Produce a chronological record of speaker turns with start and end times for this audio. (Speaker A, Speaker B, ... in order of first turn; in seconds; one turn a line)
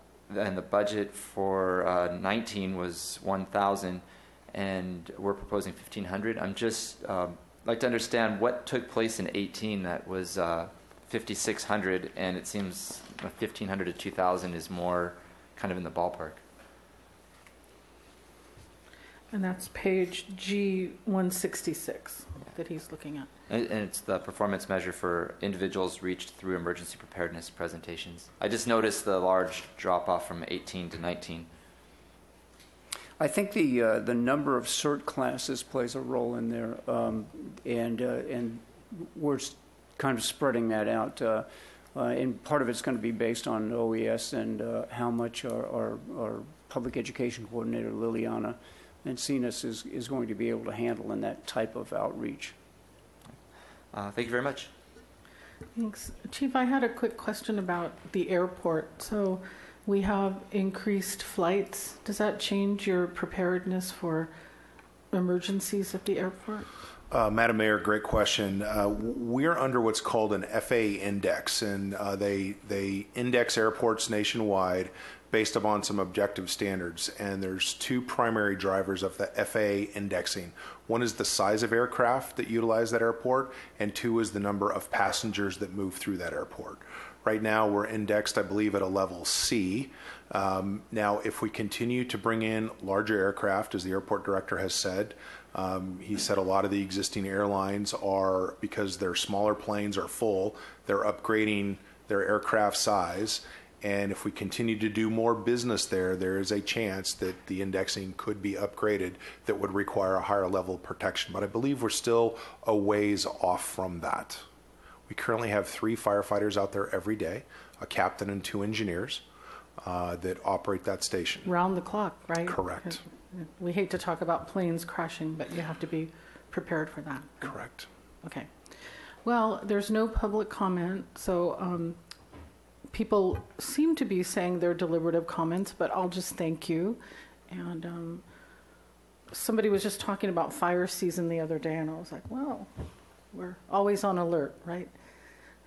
Speaker A: 0.3-16.4
Speaker B: 19.3-23.3
Speaker A: 23.5-31.5
Speaker C: 33.2-52.6
Speaker A: 53.9-54.7
Speaker B: 55.8-64.3
Speaker B: 65.1-66.7
Speaker D: 67.1-114.5
Speaker D: 115.1-119.2
Speaker D: 119.8-121.5
Speaker B: 121.5-127.4
Speaker D: 122.5-123.0
Speaker D: 127.4-127.9
Speaker B: 128.2-128.5
Speaker B: 129.2-132.0
Speaker B: 132.9-138.2
Speaker B: 139.3-142.7
Speaker B: 143.3-144.9